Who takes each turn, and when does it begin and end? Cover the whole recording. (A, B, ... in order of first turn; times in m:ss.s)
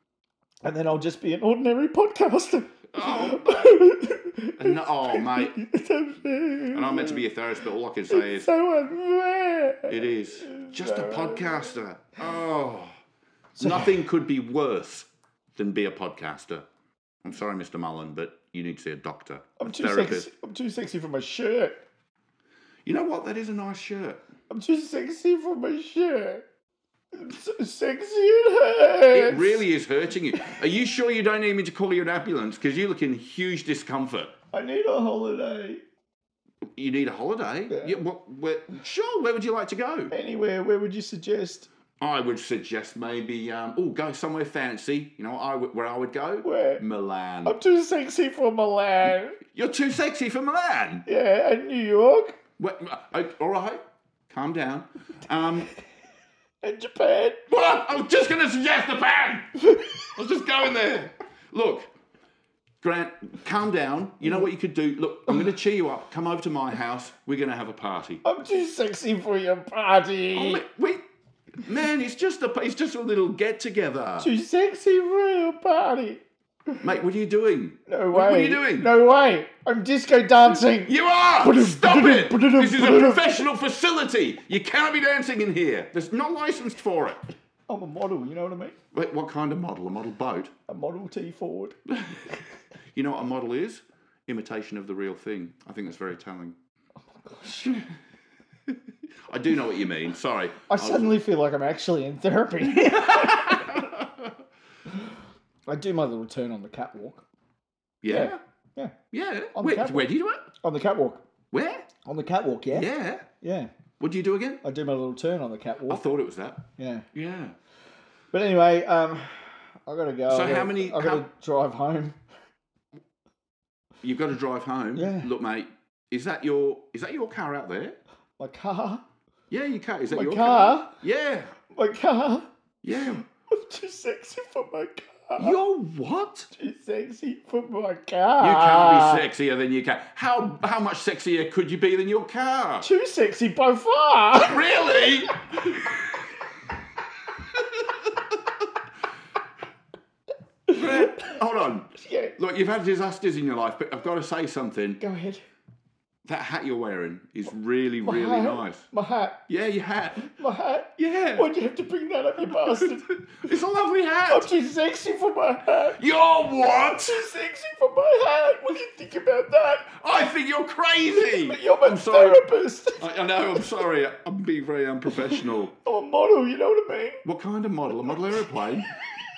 0:00.6-0:07.2 A
0:02.9-0:03.9 B
0:04.6-0:05.6 B
0:06.7-0:08.5 B
0:08.1-0:11.8 A
0:09.9-0:12.9 B
0:13.5-0:14.0 A
0:13.6-0:16.6 B
0:17.2-0:20.3 B
0:19.6-0:21.8 A
0:22.8-0:24.2 B
0:24.5-0:26.4 A
0:27.1-0:29.6 A
0:29.1-0:34.3 B
0:30.4-0:30.6 A
0:34.5-0:35.8 A
0:36.8-0:40.1 B
0:37.7-0:38.0 A
0:40.1-0:41.7 A
0:42.0-0:47.6 B
0:46.4-0:46.8 A
0:47.4-0:49.4 A
0:49.5-0:51.0 B
0:51.0-0:52.4 A
0:52.6-0:55.7 B
0:56.6-0:57.5 A
0:57.5-0:59.5 B
0:59.6-1:00.1 A
1:00.2-1:01.9 B
1:02.8-1:08.2 B
1:08.2-1:10.6 A
1:10.3-1:11.0 B
1:11.6-1:14.3 B
1:14.2-1:16.8 A
1:16.8-1:18.9 B
1:17.9-1:23.4 A
1:20.5-1:27.2 B
1:27.7-1:28.8 A
1:28.9-1:30.5 B
1:30.7-1:31.8 A
1:31.9-1:32.2 B
1:32.9-1:36.5 B
1:37.2-1:37.9 A
1:39.3-1:41.2 B
1:40.7-1:43.9 A
1:42.6-1:44.3 B
1:45.7-1:47.2 A
1:48.0-1:48.4 B
1:48.1-1:48.9 A
1:49.1-1:50.5 B
1:49.5-1:50.1 A
1:50.6-1:51.2 A
1:51.5-1:51.9 B
1:52.0-1:53.7 A
1:52.7-1:53.3 B
1:54.0-1:54.6 B
1:54.6-1:56.0 A
1:55.9-1:57.5 B
1:56.8-1:57.1 A
1:58.3-2:02.2 A
2:00.3-2:01.3 B
2:04.0-2:08.0 B
2:04.9-2:05.3 A
2:08.4-2:09.0 A
2:09.5-2:11.5 B
2:10.1-2:11.0 A
2:11.7-2:12.5 A
2:12.8-2:13.2 B
2:13.0-2:15.5 A
2:15.4-2:16.5 B
2:16.5-2:19.2 A
2:18.4-2:22.9 B
2:22.8-2:25.6 A
2:24.4-2:25.4 B
2:30.7-2:31.4 A
2:30.7-2:35.0 B
2:31.9-2:32.4 A
2:35.0-2:35.4 A
2:36.2-2:38.9 B
2:38.0-2:39.4 A
2:39.5-2:40.3 B
2:40.2-2:43.6 A
2:41.0-2:41.5 B
2:42.5-2:44.5 B
2:44.3-2:46.0 A
2:46.0-2:47.2 B
2:46.6-2:49.9 A
2:49.9-2:55.7 B
2:51.1-2:53.1 A
2:55.1-2:57.2 A
2:57.2-2:58.9 B